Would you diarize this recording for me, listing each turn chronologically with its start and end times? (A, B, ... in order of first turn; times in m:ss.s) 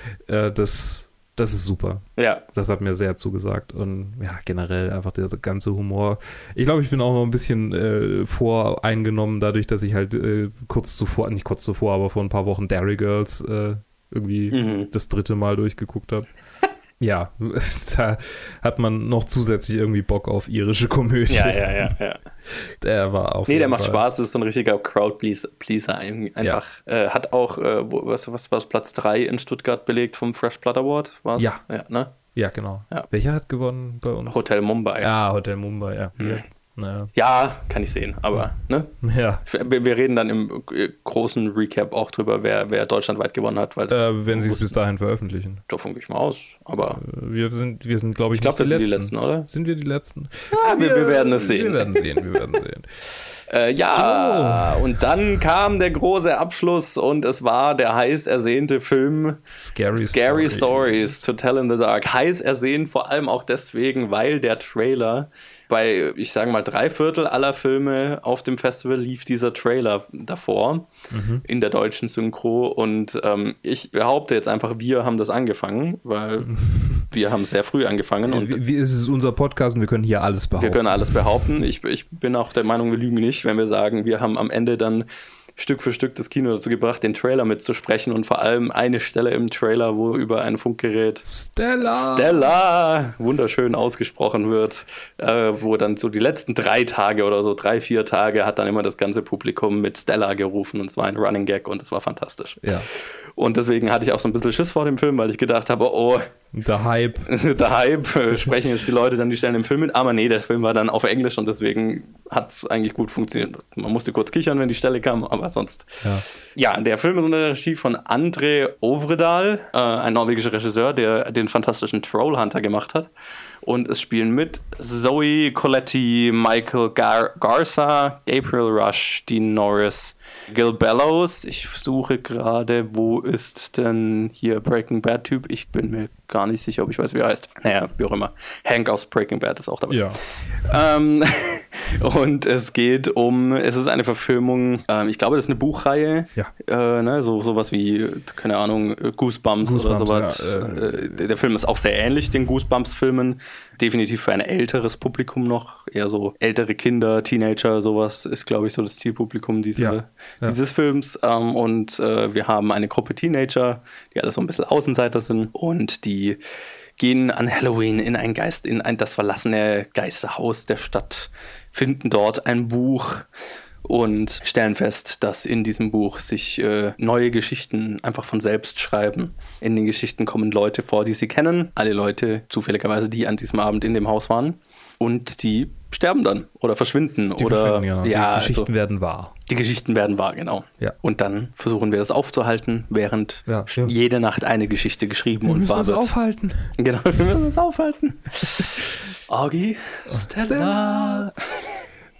0:00.3-0:16.3 A
0:02.2-0:02.4 B
0:14.5-0:14.9 B
0:17.0-0:22.0 A
0:21.3-0:22.2 B
0:22.5-0:24.0 A
0:23.5-0:32.1 B
0:32.3-0:34.4 A
0:34.3-0:35.1 B
0:35.0-0:37.1 A
0:36.2-0:36.4 B
0:37.1-0:38.9 B
0:39.0-0:39.4 A
0:39.4-0:44.8 B
0:43.9-0:45.6 A
0:45.7-0:47.0 B
0:47.0-0:52.8 A
0:48.3-0:49.5 B
0:50.5-0:52.0 B
0:53.5-0:59.4 B
0:53.9-0:54.9 A
0:59.6-1:01.1 A
0:59.9-1:10.9 B
1:11.1-1:11.4 A
1:11.4-1:18.6 B
1:16.5-1:17.1 A
1:18.3-1:21.4 A
1:20.6-1:31.2 B
1:31.2-1:32.4 A
1:31.8-1:42.6 B
1:42.6-1:42.9 A
1:43.4-1:46.2 B
1:46.5-1:47.3 A
1:47.2-1:56.0 B
1:56.6-2:03.1 B
2:03.6-2:46.4 B
2:19.9-2:20.2 A
2:29.6-2:31.2 A
2:39.8-2:40.6 A
2:47.0-2:53.2 B
2:53.8-3:08.7 B
3:07.4-3:09.3 A
3:09.5-3:16.1 B
3:13.5-3:13.9 A
3:15.4-3:16.7 A
3:16.8-3:21.8 B
3:20.1-3:21.3 A